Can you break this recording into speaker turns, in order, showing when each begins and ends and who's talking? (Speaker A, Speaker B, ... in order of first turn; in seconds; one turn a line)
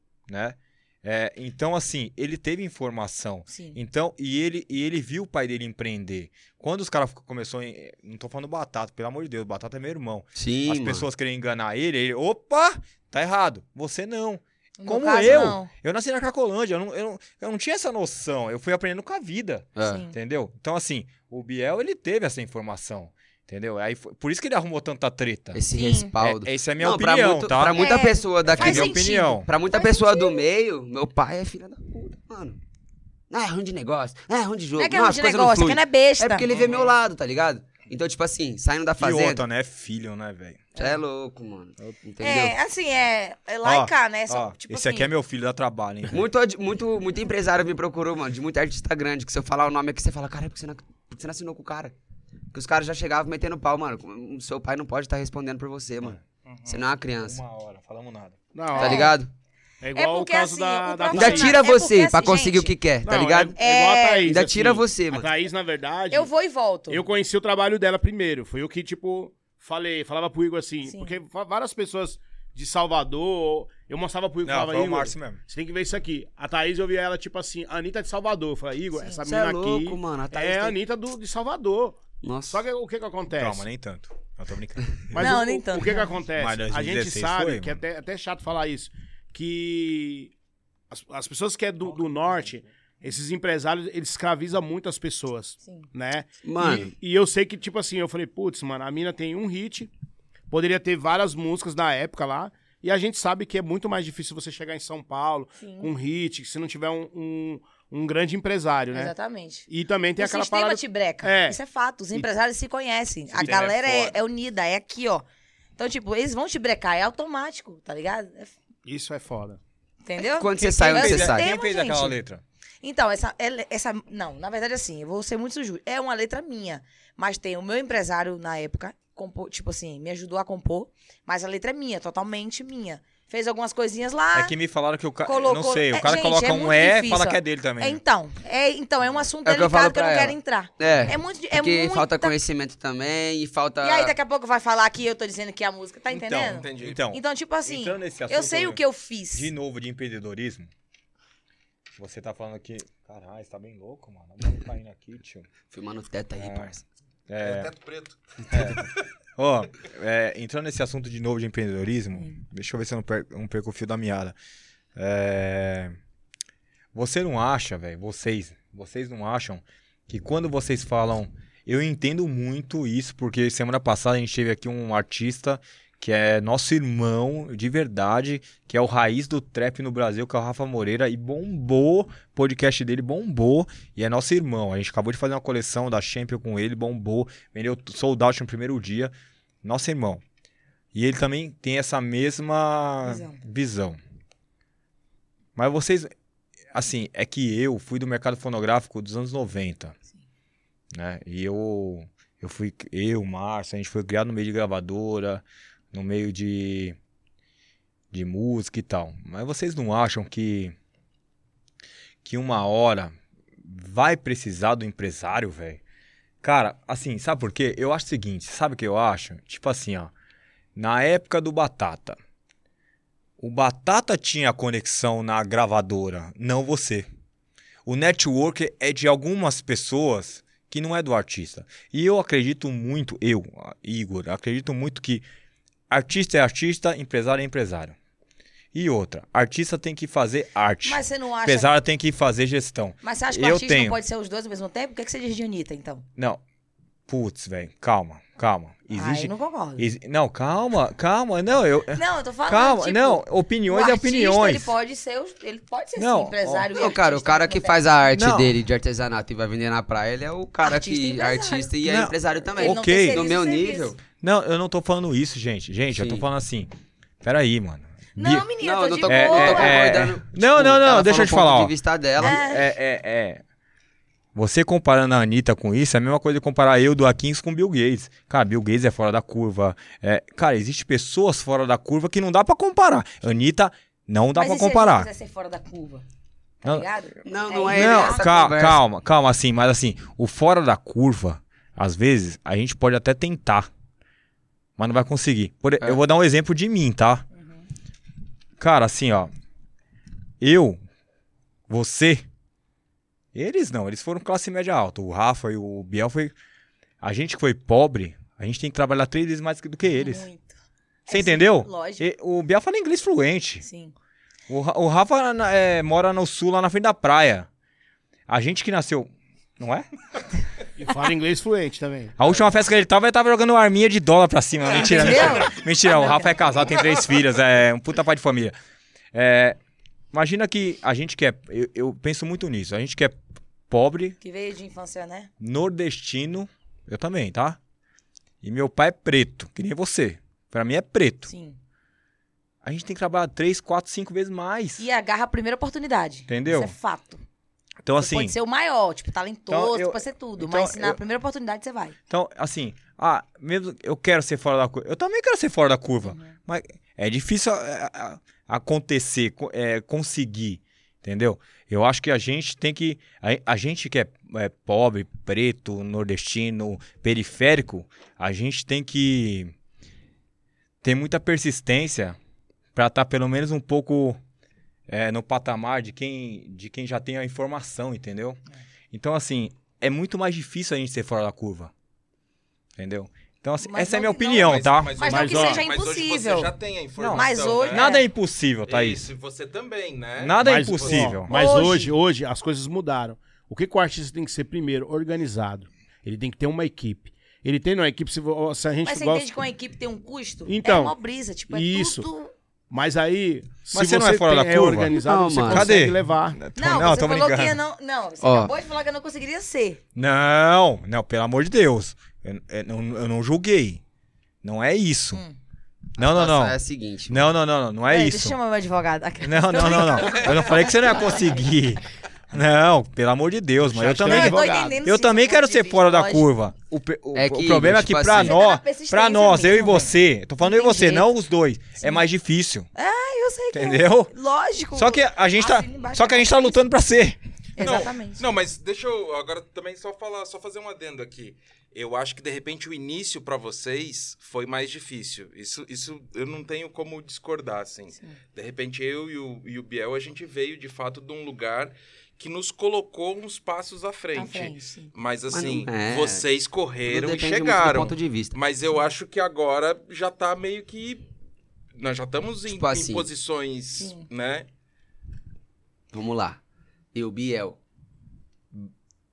Speaker A: 0.3-25.6
Speaker B: 3.5-3.8
Speaker C: 10.3-11.0
Speaker B: 14.8-15.7
Speaker C: 15.2-15.6
Speaker C: 19.8-20.0
Speaker B: 19.8-20.1
Speaker C: 25.5-32.6
Speaker B: 25.7-26.1
Speaker A: 26.2-29.5
Speaker B: 27.7-30.4
Speaker C: 33.3-39.4
Speaker B: 34.8-36.5
Speaker D: 36.5-36.9
Speaker A: 39.0-40.7
Speaker C: 40.8-42.5
Speaker B: 42.2-45.1
Speaker A: 43.6-46.2
Speaker C: 46.1-51.9
Speaker C: 52.5-57.4
Speaker D: 56.5-56.8
Speaker A: 57.2-58.4
Speaker E: 58.5-59.1
Speaker B: 58.7-59.1
Speaker C: 58.8-59.3
Speaker E: 59.8-61.6
Speaker B: 59.9-62.7
Speaker C: 61.1-63.6
Speaker E: 63.0-66.3
Speaker B: 63.5-64.3
Speaker C: 64.2-65.3
Speaker B: 66.1-67.0
Speaker E: 66.9-83.6
Speaker B: 70.9-71.2
Speaker A: 74.4-75.4
Speaker B: 78.9-79.2
Speaker C: 79.2-80.8
Speaker C: 82.2-82.6
Speaker A: 83.3-85.3
Speaker E: 85.1-90.3
Speaker B: 85.2-86.2
Speaker A: 86.4-87.8
Speaker E: 90.9-99.9
Speaker C: 96.4-96.9
Speaker E: 100.5-109.1
Speaker B: 105.6-105.9
Speaker B: 108.9-115.2
Speaker E: 109.7-111.6
Speaker A: 113.3-114.2
Speaker B: 115.8-118.5
Speaker E: 118.8-119.6
Speaker B: 120.0-122.1
Speaker C: 120.4-121.5
Speaker A: 120.7-122.4
Speaker B: 122.8-134.5
Speaker A: 134.3-138.0
Speaker B: 135.2-142.3
Speaker C: 139.4-144.1
Speaker B: 143.8-149.5
Speaker A: 146.1-148.8
Speaker D: 146.5-147.0
Speaker A: 149.3-150.7
Speaker A: 151.9-155.5
Speaker C: 155.7-156.8
Speaker A: 156.3-156.7
Speaker A: 157.3-157.7
Speaker D: 157.4-158.9
Speaker A: 158.5-164.3
Speaker A: 164.9-165.9
Speaker A: 166.9-190.2
Speaker A: 190.9-194.0
Speaker B: 193.0-193.4
Speaker A: 195.6-196.1
Speaker A: 196.7-199.9
Speaker A: 200.9-207.0
Speaker A: 208.1-210.7
Speaker A: 212.2-215.8
Speaker A: 216.4-220.1
Speaker A: 220.8-222.2
Speaker A: 223.4-227.1
Speaker A: 227.8-235.2
Speaker A: 235.9-237.9
Speaker A: 238.7-244.0
Speaker B: 240.8-241.7
Speaker B: 243.0-246.0
Speaker A: 246.2-246.4
Speaker A: 247.1-254.7
Speaker B: 248.9-249.9
Speaker B: 251.9-257.9
Speaker A: 256.0-256.7
Speaker C: 256.7-264.0
Speaker A: 258.1-258.6
Speaker B: 260.6-261.7
Speaker A: 261.8-263.3
Speaker B: 262.6-263.9
Speaker A: 264.2-266.7
Speaker C: 265.9-266.2
Speaker A: 267.2-268.4
Speaker B: 268.1-269.9
Speaker C: 268.6-272.5
Speaker A: 269.0-273.4
Speaker B: 272.2-272.7
Speaker A: 274.3-285.1
Speaker B: 284.4-286.0
Speaker B: 286.6-288.3
Speaker C: 287.2-288.8
Speaker A: 287.7-293.7
Speaker A: 294.8-297.2
Speaker B: 297.4-297.6
Speaker A: 298.6-299.3
Speaker A: 300.4-300.8
Speaker A: 301.7-302.2
Speaker A: 303.3-306.3
Speaker A: 307.0-310.3
Speaker B: 309.9-312.0
Speaker A: 311.1-313.6
Speaker B: 313.6-313.9
Speaker A: 314.5-317.5
Speaker A: 318.3-319.9
Speaker E: 320.8-322.2
Speaker A: 322.2-328.5
Speaker B: 324.7-326.4
Speaker A: 329.1-329.6
Speaker A: 330.1-334.2
Speaker B: 334.2-335.3
Speaker A: 335.4-337.6
Speaker A: 338.4-341.3
Speaker B: 341.3-341.6
Speaker A: 342.6-344.8
Speaker B: 344.8-347.2
Speaker A: 346.3-346.7
Speaker A: 347.8-348.3
Speaker B: 348.0-351.9
Speaker A: 349.5-351.0
Speaker A: 352.1-369.5
Speaker B: 356.0-356.3
Speaker A: 370.8-372.2
Speaker A: 372.7-374.2
Speaker A: 374.9-378.4
Speaker A: 378.9-381.7
Speaker A: 382.8-384.9
Speaker B: 383.6-386.5
Speaker D: 384.3-387.9
Speaker E: 385.1-385.6
Speaker A: 387.0-389.1
Speaker B: 387.1-388.0
Speaker D: 388.6-391.1
Speaker A: 390.2-391.3
Speaker E: 390.4-399.3
Speaker B: 391.3-391.9
Speaker B: 398.8-402.3
Speaker E: 400.4-400.9
Speaker E: 401.5-402.1
Speaker E: 402.7-406.4
Speaker A: 403.7-407.6
Speaker C: 404.9-405.8
Speaker B: 406.6-409.8
Speaker C: 408.2-408.5
Speaker A: 409.9-413.8
Speaker A: 414.4-415.2
Speaker A: 416.0-416.6
Speaker C: 416.0-417.3
Speaker A: 417.1-418.4
Speaker B: 417.9-421.1
Speaker A: 419.2-432.7
Speaker E: 423.7-424.8
Speaker B: 424.0-426.3
Speaker C: 427.1-428.4
Speaker B: 428.1-431.1
Speaker B: 432.7-436.6
Speaker A: 433.5-434.1
Speaker A: 434.7-437.2
Speaker B: 437.6-438.2
Speaker D: 437.6-461.1
Speaker B: 454.1-454.9
Speaker C: 455.3-456.2
Speaker C: 456.9-458.4
Speaker D: 461.8-464.5
Speaker C: 462.4-463.1
Speaker B: 463.8-464.1
Speaker C: 465.9-466.4
Speaker C: 466.9-467.6